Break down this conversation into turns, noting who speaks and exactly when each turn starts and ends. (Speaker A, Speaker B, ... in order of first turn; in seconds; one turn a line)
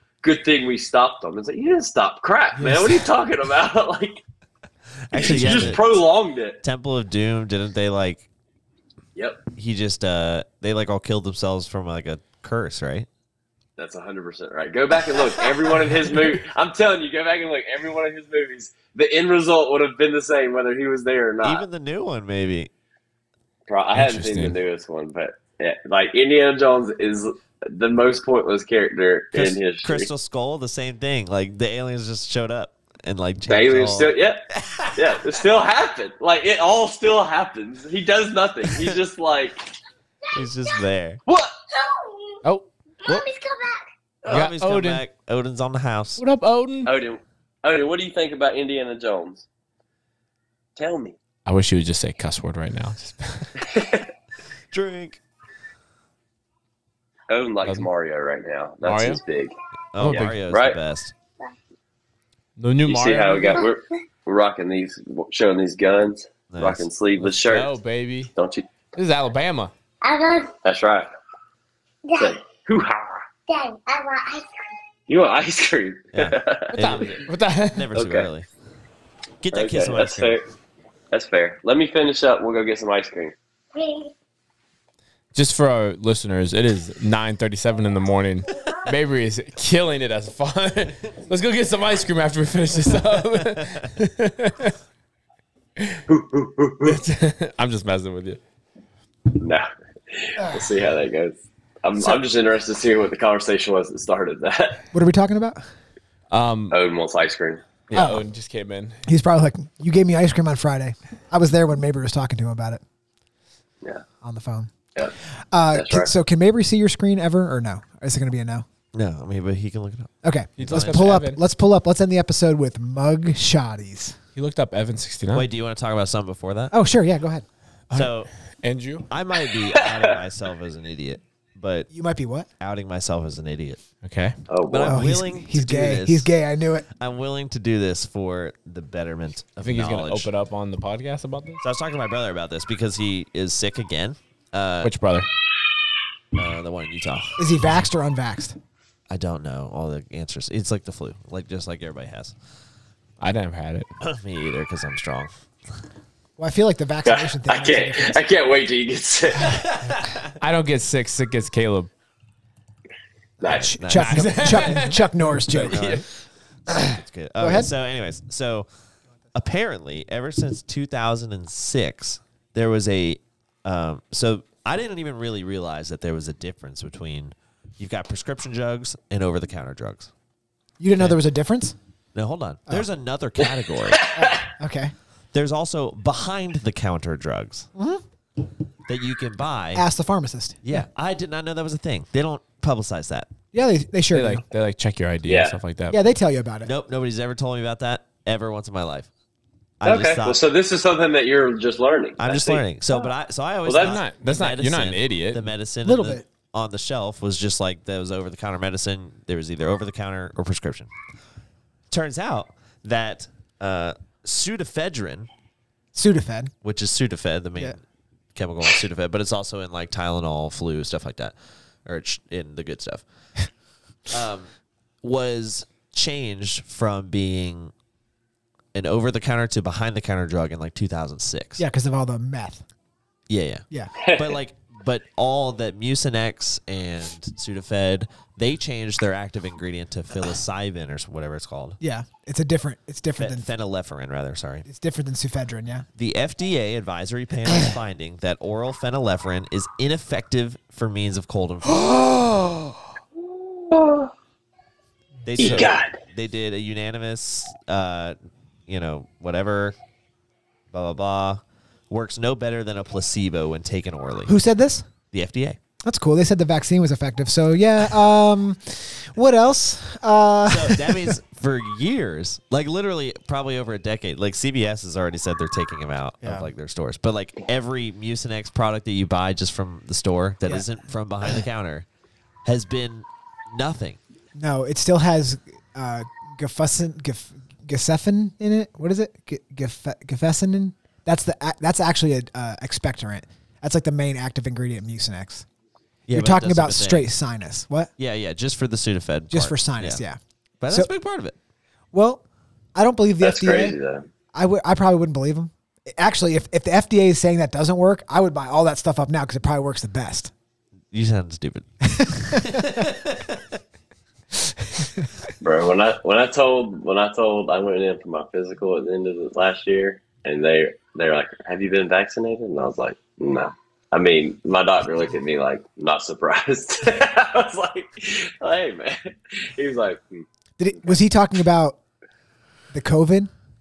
Speaker A: 0.2-4.2
Speaker B: 2.6-3.0
Speaker C: 5.1-5.8
Speaker A: 5.1-6.6
Speaker C: 6.6-8.3
Speaker C: 9.6-13.1
Speaker A: 13.8-21.6
Speaker C: 21.4-22.7
Speaker A: 23.7-30.1
Speaker D: 23.9-24.6
Speaker C: 29.3-35.1
Speaker A: 33.5-34.4
Speaker A: 34.9-39.7
Speaker C: 38.7-39.0
Speaker E: 40.3-40.8
Speaker C: 40.3-41.2
Speaker A: 41.3-41.5
Speaker E: 41.7-42.4
Speaker E: 43.0-43.8
Speaker C: 44.2-46.2
Speaker D: 44.3-45.0
Speaker D: 46.2-46.9
Speaker A: 46.9-49.5
Speaker A: 50.8-51.2
Speaker D: 51.5-53.5
Speaker A: 53.6-54.1
Speaker C: 54.7-55.2
Speaker A: 57.3-60.8
Speaker D: 58.8-59.2
Speaker C: 59.9-61.1
Speaker D: 60.0-60.4
Speaker D: 62.6-63.6
Speaker A: 62.9-67.7
Speaker C: 66.5-66.8
Speaker D: 67.2-68.3
Speaker A: 68.3-68.7
Speaker D: 69.0-69.7
Speaker E: 70.0-70.5
Speaker A: 70.6-71.1
Speaker E: 72.1-72.4
Speaker A: 72.2-73.2
Speaker E: 73.5-74.5
Speaker A: 75.1-77.1
Speaker C: 76.2-78.5
Speaker D: 76.7-77.9
Speaker A: 77.9-78.3
Speaker C: 79.4-80.4
Speaker A: 79.5-80.5
Speaker A: 81.1-83.3
Speaker E: 83.7-84.1
Speaker D: 85.3-94.8
Speaker A: 96.1-97.0
Speaker D: 96.8-98.4
Speaker A: 99.3-104.8
Speaker B: 100.4-100.7
Speaker B: 104.9-105.6
Speaker D: 106.3-106.8
Speaker A: 106.7-107.6
Speaker D: 107.9-109.0
Speaker B: 107.9-108.2
Speaker B: 109.1-112.8
Speaker B: 114.2-114.7
Speaker B: 115.5-118.7
Speaker A: 115.7-116.1
Speaker C: 118.9-121.2
Speaker B: 120.2-124.2
Speaker D: 120.6-121.4
Speaker D: 124.4-125.5
Speaker C: 125.3-126.8
Speaker B: 126.7-127.5
Speaker D: 127.9-129.1
Speaker C: 127.9-128.3
Speaker C: 129.1-131.9
Speaker A: 129.8-130.1
Speaker B: 131.9-132.5
Speaker C: 132.6-133.8
Speaker D: 134.0-134.3
Speaker A: 134.5-135.0
Speaker C: 134.7-136.3
Speaker B: 134.8-136.9
Speaker C: 137.0-140.3
Speaker D: 139.6-141.6
Speaker C: 141.6-144.9
Speaker D: 144.8-145.3
Speaker C: 146.3-147.4
Speaker B: 147.4-148.6
Speaker C: 149.1-152.3
Speaker D: 153.2-153.9
Speaker C: 154.0-155.4
Speaker B: 156.4-158.2
Speaker A: 157.1-159.7
Speaker C: 159.5-160.3
Speaker D: 160.4-161.9
Speaker A: 163.4-163.8
Speaker B: 163.4-166.0
Speaker C: 163.5-164.8
Speaker D: 163.9-166.0
Speaker C: 165.5-166.1
Speaker C: 166.8-168.7
Speaker B: 167.4-167.7
Speaker C: 169.3-180.1
Speaker B: 180.8-181.8
Speaker C: 182.2-184.1
Speaker A: 184.0-184.4
Speaker B: 184.1-184.9
Speaker C: 185.3-187.7
Speaker B: 187.8-188.0
Speaker C: 188.9-189.8
Speaker B: 189.7-190.8
Speaker C: 190.6-193.3
Speaker B: 193.5-194.4
Speaker D: 194.1-196.0
Speaker A: 195.3-195.6
Speaker B: 195.9-196.7
Speaker C: 196.6-199.1
Speaker C: 199.8-200.4
Speaker A: 199.8-203.1
Speaker C: 202.2-210.9
Speaker A: 203.7-204.0
Speaker D: 203.8-205.4
Speaker B: 205.8-206.2
Speaker C: 211.9-215.3
Speaker B: 215.9-216.5
Speaker C: 216.6-217.8
Speaker C: 218.3-221.3
Speaker C: 221.8-223.0
Speaker C: 224.1-224.5
Speaker C: 225.0-227.7
Speaker C: 228.7-231.6
Speaker B: 231.6-232.6
Speaker C: 233.3-241.8
Speaker A: 234.0-234.4
Speaker B: 241.8-243.5
Speaker C: 243.2-244.7
Speaker B: 244.7-245.9
Speaker C: 246.0-252.0
Speaker A: 253.3-254.1
Speaker C: 255.2-259.8
Speaker A: 255.4-256.0
Speaker C: 260.7-264.3
Speaker B: 264.3-264.9
Speaker C: 265.1-265.6
Speaker B: 265.8-271.2
Speaker C: 270.4-281.9
Speaker B: 276.2-276.5
Speaker C: 282.4-284.0
Speaker B: 284.4-295.5
Speaker C: 296.1-297.1
Speaker B: 296.1-297.9
Speaker C: 298.0-300.0
Speaker B: 299.3-300.2
Speaker C: 300.6-301.4
Speaker B: 301.9-302.2
Speaker B: 302.8-303.8
Speaker A: 303.2-304.1
Speaker B: 304.3-310.3
Speaker C: 310.9-313.6
Speaker B: 311.9-312.9
Speaker B: 314.7-315.0
Speaker A: 315.4-330.2
Speaker B: 330.6-331.8
Speaker B: 332.7-333.3